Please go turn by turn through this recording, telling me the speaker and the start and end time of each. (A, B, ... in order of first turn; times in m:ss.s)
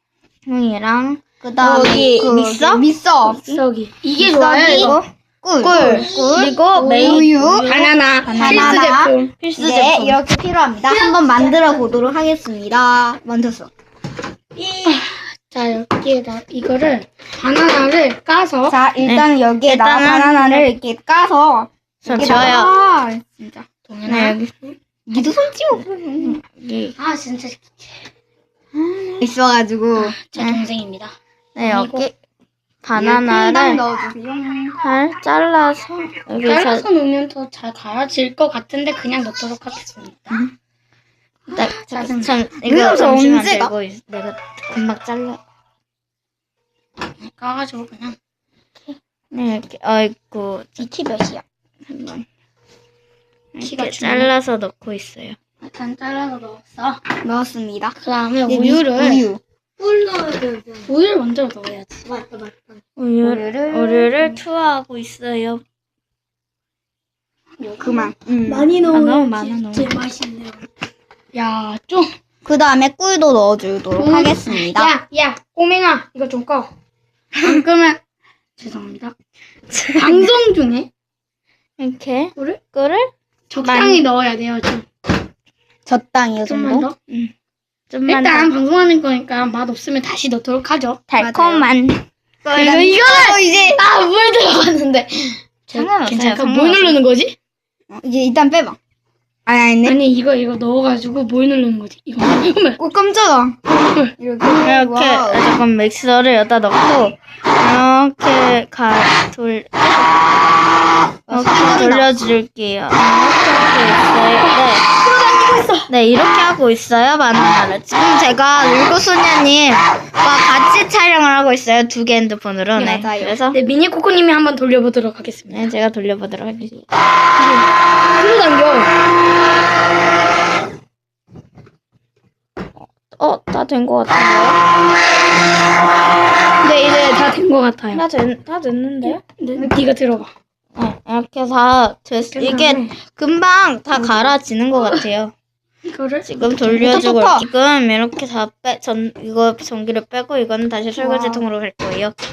0:00.5-0:02.8 A
0:01.4-0:07.7 B
0:03.2-0:05.0 C
0:04.6-0:05.0 A
0:05.6-0:08.8 A
0:05.6-0:09.3 C
0:08.3-0:13.7 B
0:09.4-0:10.2 A
0:11.0-0:11.6 C
0:14.8-0:18.8 C
0:18.7-0:23.6 B
0:19.0-0:20.7 A
0:22.0-0:22.7 A
0:23.9-0:24.4 C
0:24.0-0:24.5 A
0:25.1-0:26.4 B
0:25.8-0:26.9 A
0:27.0-0:27.8 C
0:28.7-0:29.3 A
0:29.2-0:30.2 B
0:30.0-0:32.0 C
0:30.4-0:30.6 A
0:31.6-0:32.1 A
0:32.8-0:33.8 A
0:33.0-0:34.8 B
0:34.8-0:36.8 A
0:36.4-0:40.4 C
0:41.5-0:42.4 C
0:41.5-0:45.4 A
0:42.6-0:43.7 B
0:47.2-0:48.2 C
0:48.9-0:50.8 A
0:50.8-0:51.4 B
0:51.9-0:52.2 A
0:53.5-0:55.4 A
0:53.6-0:54.3 C
0:55.6-0:57.0 C
0:57.2-0:59.4 B
0:58.0-0:59.2 C
0:59.8-1:02.8 C
1:03.0-1:05.6 A
1:03.2-1:04.4 B
1:07.6-1:10.6 C
1:07.8-1:08.7 B
1:08.9-1:10.0 A
1:11.3-1:12.1 C
1:12.4-1:14.9 B
1:14.0-1:16.7 C
1:17.4-1:18.0 C
1:18.6-1:19.1 C
1:19.7-1:20.3 A
1:19.9-1:20.9 C
1:21.8-1:23.1 A
1:23.5-1:24.8 C
1:23.6-1:24.0 A
1:25.8-1:26.9 B
1:26.5-1:26.9 C
1:27.9-1:28.5 A
1:28.1-1:31.0 C
1:31.1-1:32.0 A
1:31.2-1:31.7 B
1:32.4-1:33.8 B
1:32.5-1:37.3 C
1:35.7-1:37.0 A
1:37.9-1:38.8 B
1:39.4-1:40.0 B
1:39.8-1:42.8 C
1:42.8-1:43.6 B
1:44.2-1:45.6 B
1:44.6-1:50.3 A
1:51.3-1:52.2 B
1:51.3-1:54.8 A
1:54.4-1:55.9 C
1:55.9-2:03.6 A
2:02.8-2:03.4 B
2:03.5-2:05.7 C
2:05.5-2:06.9 A
2:07.4-2:08.9 C
2:13.1-2:14.6 A
2:16.6-2:18.0 C
2:17.9-2:19.2 A
2:19.0-2:20.3 C
2:20.8-2:25.3 A
2:22.3-2:22.9 C
2:25.8-2:26.3 C
2:26.2-2:32.2 A
2:26.4-2:27.5 B
2:31.0-2:31.4 C